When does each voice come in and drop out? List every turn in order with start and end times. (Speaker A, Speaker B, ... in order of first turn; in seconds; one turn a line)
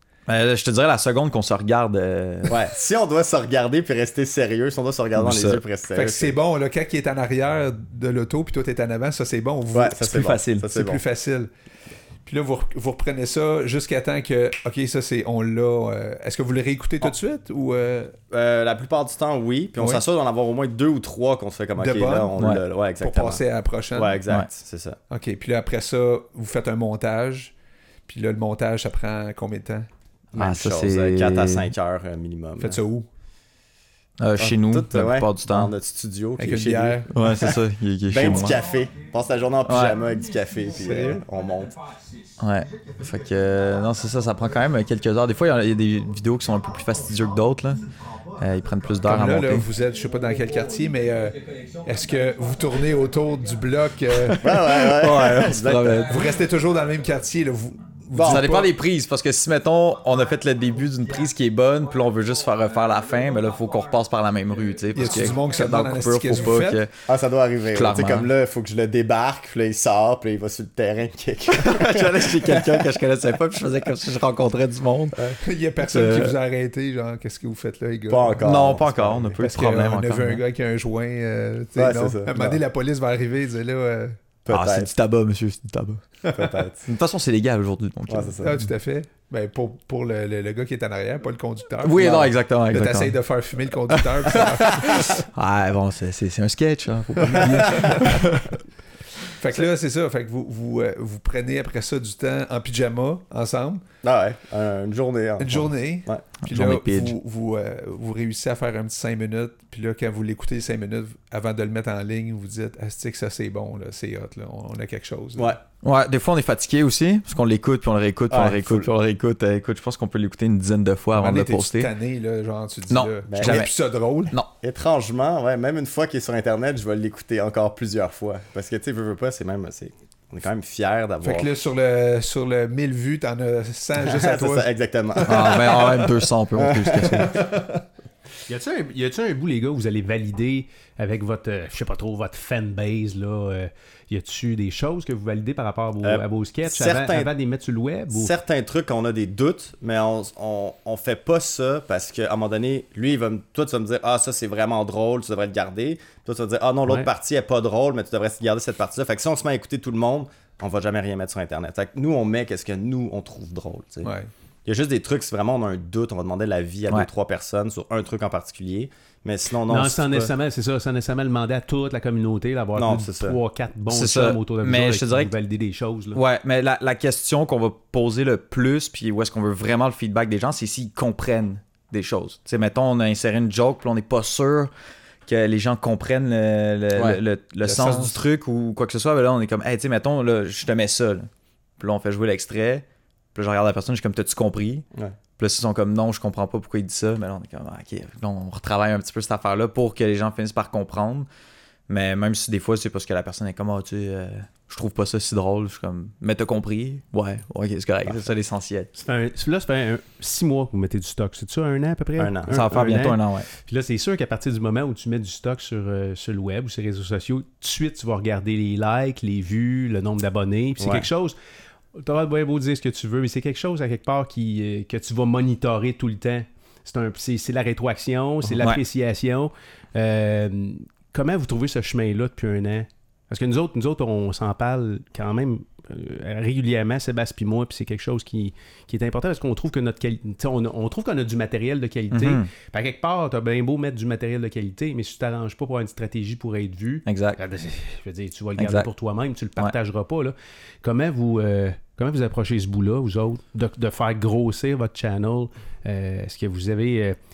Speaker A: 0.3-2.6
Speaker B: 2.5-6.3
Speaker A: 5.2-5.6
Speaker C: 5.9-11.5
Speaker B: 9.7-11.0
Speaker A: 10.0-10.7
Speaker C: 12.3-18.2
Speaker B: 18.3-23.4
Speaker C: 19.8-20.0
Speaker C: 21.8-22.4
Speaker A: 22.4-22.6
Speaker C: 23.0-24.2
Speaker B: 23.9-25.0
Speaker C: 25.1-27.5
Speaker C: 28.1-29.9
Speaker B: 30.3-32.8
Speaker A: 30.4-31.7
Speaker C: 32.6-33.1
Speaker A: 34.2-35.7
Speaker B: 34.4-41.8
Speaker C: 36.4-37.1
Speaker A: 37.1-38.6
Speaker A: 39.6-40.0
Speaker C: 40.7-41.2
Speaker A: 42.4-47.9
Speaker A: 48.4-49.7
Speaker C: 49.0-54.9
Speaker B: 54.4-56.0
Speaker A: 54.7-56.3
Speaker C: 56.0-58.7
Speaker B: 58.2-58.5
Speaker A: 58.2-66.9
Speaker C: 64.9-66.8
Speaker B: 67.1-72.9
Speaker A: 67.7-68.3
Speaker A: 71.5-76.3
Speaker C: 75.4-78.5
Speaker B: 78.1-79.4
Speaker A: 78.4-80.4
Speaker C: 79.4-84.2
Speaker B: 81.8-82.6
Speaker B: 84.5-84.9
Speaker A: 84.5-86.0
Speaker B: 86.3-86.9
Speaker A: 86.9-88.4
Speaker B: 88.1-88.6
Speaker C: 88.4-95.3
Speaker A: 91.8-93.2
Speaker A: 93.9-98.6
Speaker C: 97.2-98.4
Speaker C: 99.3-103.8
Speaker B: 104.0-106.2
Speaker C: 105.4-115.6
Speaker A: 106.4-107.2
Speaker A: 115.8-121.9
Speaker B: 118.3-118.9
Speaker C: 121.1-124.4
Speaker A: 122.9-123.7
Speaker B: 123.3-123.6
Speaker B: 124.6-131.5
Speaker C: 131.2-136.0
Speaker B: 134.0-137.4
Speaker A: 135.3-137.4
Speaker C: 137.2-137.8
Speaker D: 138.5-148.3
Speaker B: 146.0-147.3
Speaker B: 148.1-164.1
Speaker C: 164.0-164.3
Speaker B: 164.7-170.3
Speaker D: 169.7-176.2
Speaker B: 172.8-173.4
Speaker A: 173.9-175.3
Speaker A: 176.1-184.7
Speaker A: 185.3-194.9
Speaker B: 186.9-187.2
Speaker C: 187.6-188.2
Speaker A: 195.4-201.3
Speaker A: 201.9-208.9
Speaker D: 209.0-221.4
Speaker B: 212.2-212.6
Speaker A: 212.5-213.5
Speaker B: 220.8-221.1
Speaker D: 221.9-257.2
Speaker A: 242.1-242.5
Speaker A: 247.1-247.4
Speaker A: 248.6-248.9